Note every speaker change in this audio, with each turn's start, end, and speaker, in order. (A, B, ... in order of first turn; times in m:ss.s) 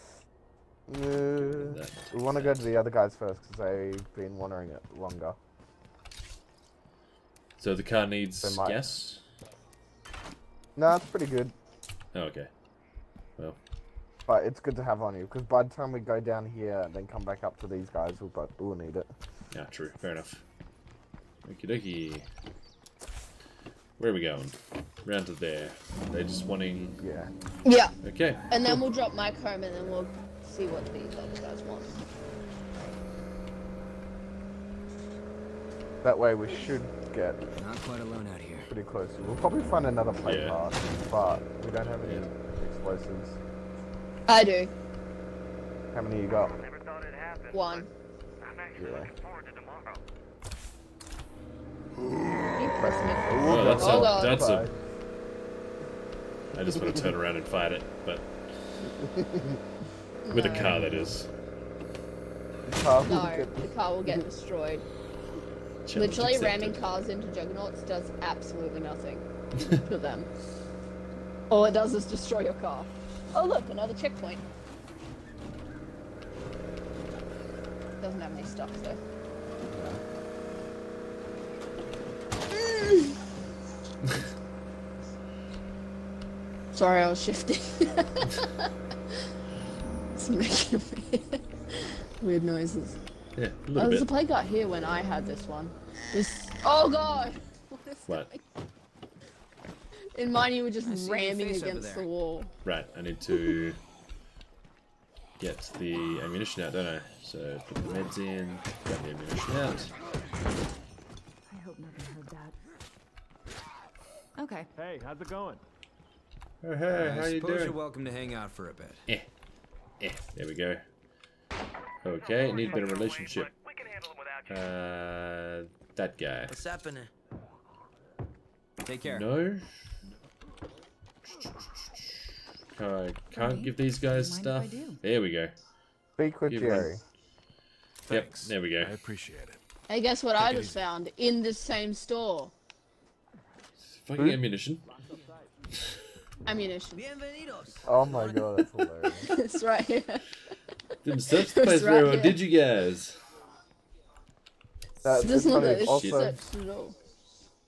0:00.9-0:05.4 A
0:01.4-0:02.7 B
0:07.6-0:09.2 B
0:08.4-0:08.8 A
0:10.8-0:11.6 A
0:12.1-0:12.5 B
0:14.3-0:19.1 A
0:19.5-0:20.4 B
0:21.4-0:22.3 B
0:24.0-0:27.0 B
0:27.0-0:27.3 A
0:27.6-0:27.9 C
0:28.0-0:28.4 B
0:28.5-0:32.0 C
0:36.0-0:37.4 A
0:37.6-0:38.7 D
0:38.7-0:43.4 A
0:40.2-0:40.6 B
0:42.0-0:42.3 B
0:44.3-0:44.7 C
0:45.9-0:46.5 A
0:46.3-0:47.9 E
0:47.5-0:47.9 C
0:48.4-0:50.0 E
0:48.8-0:49.1 A
0:52.5-0:53.7 F
0:52.6-0:54.8 A
0:53.0-0:54.5 C
0:53.4-0:54.7 B
0:56.5-0:58.3 B
0:58.8-0:59.6 A
1:00.3-1:00.9 C
1:00.3-1:01.3 B
1:00.6-1:01.1 A
1:02.7-1:04.2 A
1:03.0-1:04.8 C
1:05.8-1:06.8 B
1:05.9-1:10.3 C
1:11.5-1:14.4 C
1:18.0-1:19.0 C
1:19.6-1:20.0 A
1:22.7-1:23.1 C
1:26.7-1:28.7 C
1:30.2-1:33.0 C
1:33.4-1:34.1 B
1:33.8-1:38.4 C
1:40.1-1:42.5 C
1:40.8-1:42.1 D
1:42.6-1:43.8 B
1:45.4-1:49.9 B
1:51.5-1:52.6 F
1:54.4-1:54.7 F
1:54.8-1:55.6 G
1:56.6-1:57.8 B
1:56.9-1:59.0 D
2:00.0-2:00.8 B
2:02.0-2:03.5 B
2:02.2-2:04.5 E
2:04.5-2:06.6 B
2:06.5-2:07.1 D
2:08.8-2:09.3 D
2:09.1-2:09.7 B
2:12.7-2:15.6 B
2:13.3-2:15.0 F
2:16.2-2:17.0 A
2:16.5-2:16.9 B
2:18.0-2:19.6 G
2:18.1-2:19.0 B
2:19.9-2:22.5 C
2:20.4-2:20.8 G
2:23.8-2:24.8 B
2:24.8-2:25.5 G
2:26.5-2:27.0 C
2:26.9-2:28.2 D
2:27.8-2:29.3 A
2:29.2-2:30.3 C
2:31.0-2:33.2 B
2:31.3-2:32.4 C
2:35.0-2:36.4 A
2:35.2-2:37.0 C
2:35.4-2:36.3 B